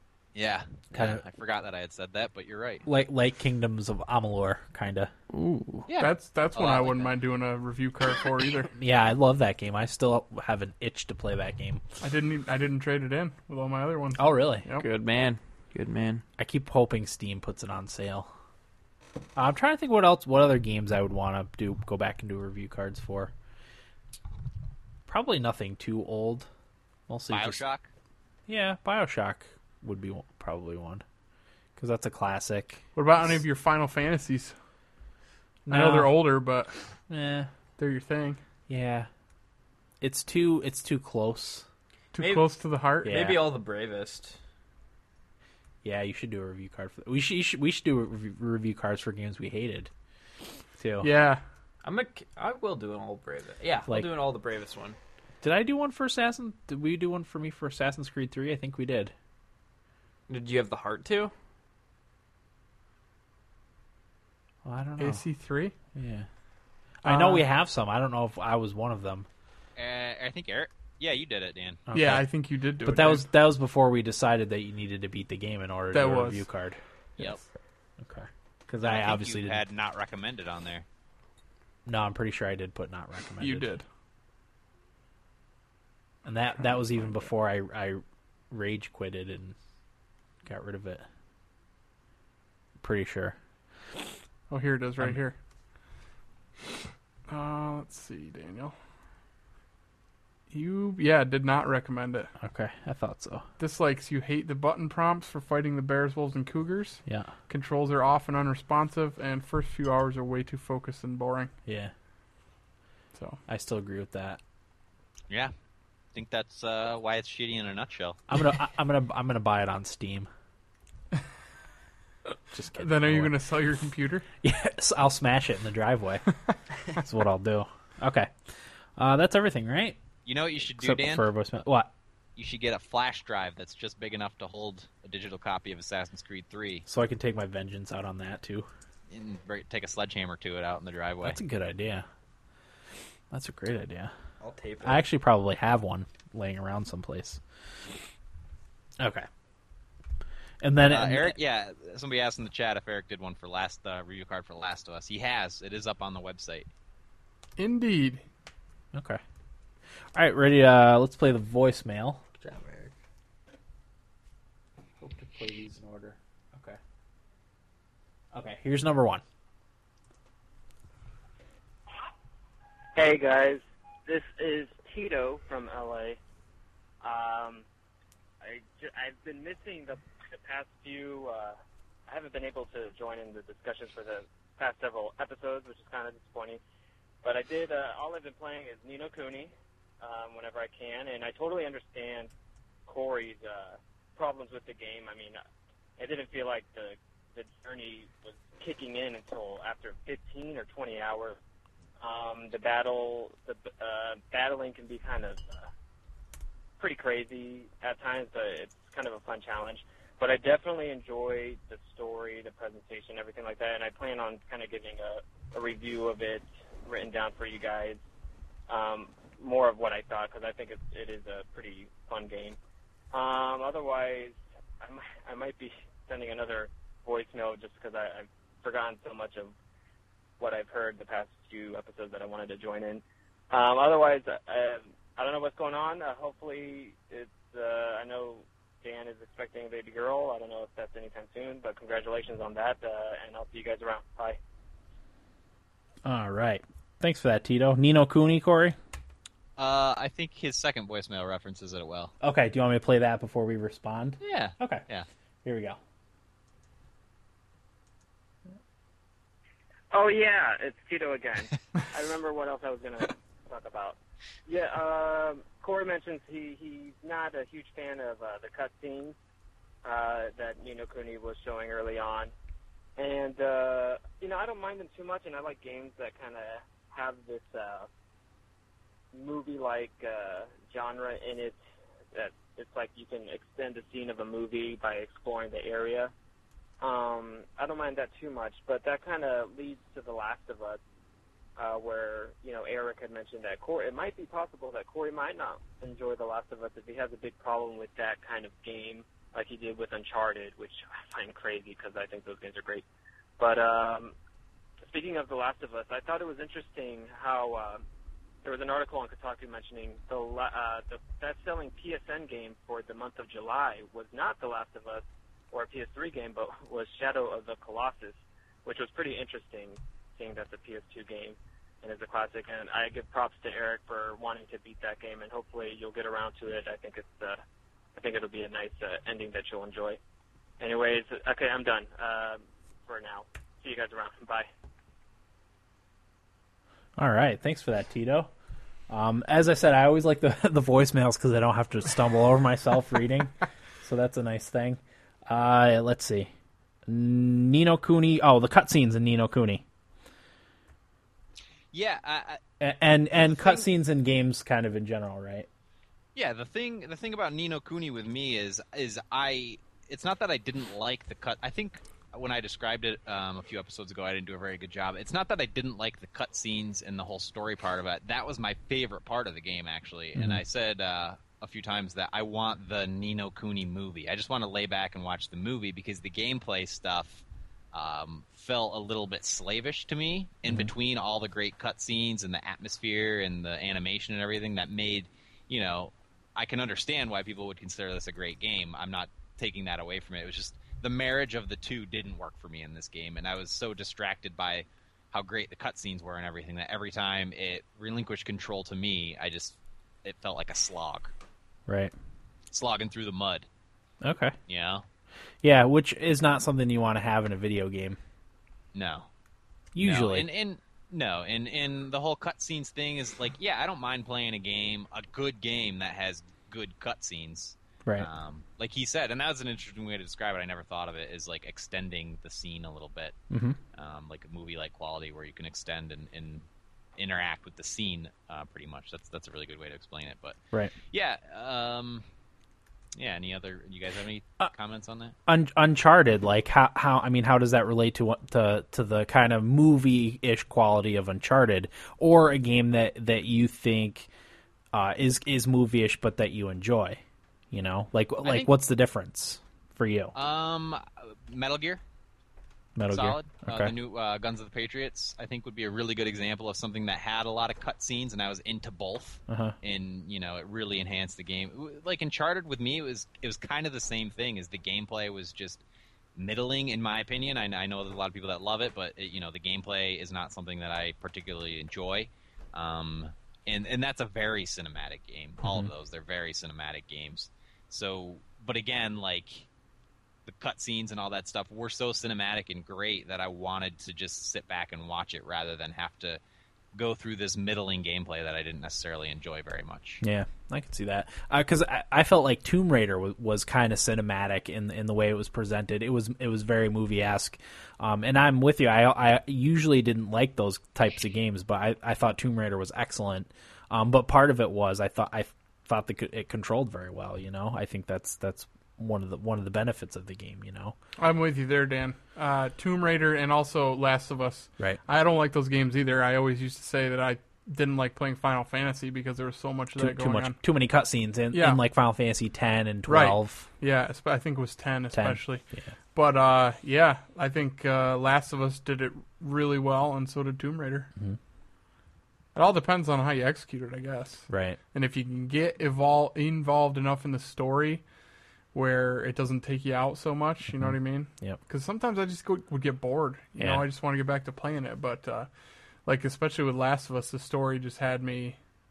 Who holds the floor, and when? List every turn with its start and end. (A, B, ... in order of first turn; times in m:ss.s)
0:00.3-0:02.8 A
0:00.9-0:01.2 B
0:02.9-0:05.1 B
0:05.3-0:05.9 C
0:05.9-0:07.1 A
0:06.0-0:08.7 D
0:08.8-0:11.8 B
0:12.0-0:14.8 D
0:14.2-0:14.7 B
0:14.8-0:16.2 C
0:16.4-0:18.3 B
0:19.4-0:23.3 B
0:25.1-0:26.5 B
0:27.1-0:27.6 B
0:27.3-0:27.9 A
0:28.5-0:31.0 B
0:31.8-0:32.8 B
0:33.0-0:34.5 D
0:35.7-0:36.1 B
0:35.7-0:36.8 D
0:37.1-0:37.5 B
0:37.8-0:38.4 D
0:38.7-0:39.1 B
0:40.0-0:41.7 B
0:42.1-0:43.1 D
0:42.2-0:44.4 C
0:43.0-0:43.5 B
0:45.8-0:49.9 B
0:50.8-0:51.1 B
0:51.0-0:51.4 D
0:51.8-0:55.0 C
0:55.4-0:59.1 B
1:00.3-1:01.3 C
1:04.6-1:05.2 B
1:05.0-1:05.7 D
1:06.0-1:06.3 B
1:07.0-1:09.3 B
1:07.0-1:07.4 D
1:09.8-1:11.8 A
1:11.9-1:12.2 B
1:11.9-1:13.3 D
1:12.8-1:17.3 B
1:15.9-1:16.4 D
1:18.0-1:19.6 B
1:18.8-1:20.8 A
1:21.9-1:23.7 B
1:23.4-1:23.8 D
1:26.2-1:29.6 B
1:30.4-1:31.0 B
1:32.8-1:33.4 B
1:34.5-1:35.4 D
1:37.3-1:38.8 D
1:40.5-1:42.3 D
1:42.4-1:43.5 B
1:43.6-1:51.5 D
1:47.1-1:47.3 B
1:51.7-1:51.9 B
1:53.5-1:54.4 B
1:56.1-1:58.2 A
1:58.3-2:00.3 B
2:02.5-2:03.3 B
2:02.8-2:04.3 D
2:04.4-2:06.2 B
2:07.0-2:08.3 B
2:09.0-2:10.0 B
2:10.3-2:11.3 A
2:10.7-2:11.9 B
2:12.4-2:16.8 A
2:16.9-2:18.7 B
2:19.1-2:21.4 A
2:21.2-2:22.1 B
2:23.3-2:24.1 B
2:24.4-2:25.0 C
2:24.8-2:27.4 B
2:29.0-2:29.3 B
2:30.6-2:31.4 B
2:30.9-2:36.7 A
2:37.6-2:38.2 D
2:38.9-2:39.2 B
2:40.2-2:42.2 B
2:42.4-2:43.0 C
2:45.0-2:46.8 B
2:45.4-2:46.1 C
2:48.3-2:49.2 B
2:53.0-2:56.2 E
2:57.0-2:57.6 E
2:58.4-3:06.6 E
3:07.2-3:12.3 E
3:12.9-3:15.4 E
3:16.0-3:21.4 E
3:22.0-3:25.7 E
3:26.8-3:38.0 E
3:38.7-3:42.6 E
3:43.1-3:49.5 E
3:50.4-4:04.4 E
4:06.0-4:08.8 B
4:09.6-4:12.1 A
4:12.2-4:14.8 B
4:14.2-4:15.1 A
4:15.4-4:15.8 B
4:19.9-4:29.2 E
4:29.8-4:32.3 E
4:33.0-4:37.9 E
4:39.1-4:41.6 E
4:42.1-4:46.1 E
4:46.8-4:50.8 E
4:51.6-5:02.8 E
5:03.4-5:04.1 E
5:04.9-5:07.8 E
5:08.4-5:27.4 E
5:28.0-5:30.0 E
5:30.6-5:34.5 E
5:37.0-5:38.3 B
5:38.9-5:46.3 B
5:46.9-5:49.6 B
5:51.7-5:52.4 A
5:52.6-5:55.5 B
5:56.2-6:41.1 A
6:10.2-6:10.4 B
6:20.5-6:20.7 B
6:41.7-6:41.9 B
6:42.5-6:43.5 A
6:44.0-6:44.4 B
6:44.5-6:44.8 A
6:45.4-6:48.0 B
6:48.7-6:49.1 A
6:49.8-6:50.3 B
6:49.8-7:03.2 A
7:03.3-7:03.6 B
7:03.8-7:06.4 A
7:07.0-7:10.4 A
7:10.9-7:12.0 A
7:13.0-7:15.2 A
7:15.3-7:24.1 B
7:24.7-7:30.2 B
7:28.2-7:28.5 A
7:30.2-7:31.8 A
7:32.8-7:33.7 B
7:32.9-7:45.6 A
7:39.3-7:39.6 B
7:46.2-7:59.5 A
7:55.4-7:55.7 B
8:00.3-8:06.2 A
8:06.8-8:10.0 A
8:10.0-8:30.8 B
8:31.0-8:40.4 D
8:39.8-8:43.5 B
8:41.3-8:41.6 D
8:42.9-8:50.9 D
8:44.9-8:45.7 B
8:52.4-8:57.8 D
8:54.3-8:54.6 B
8:58.5-9:05.3 D
9:00.6-9:01.4 B
9:03.4-9:03.6 B
9:05.9-9:08.4 D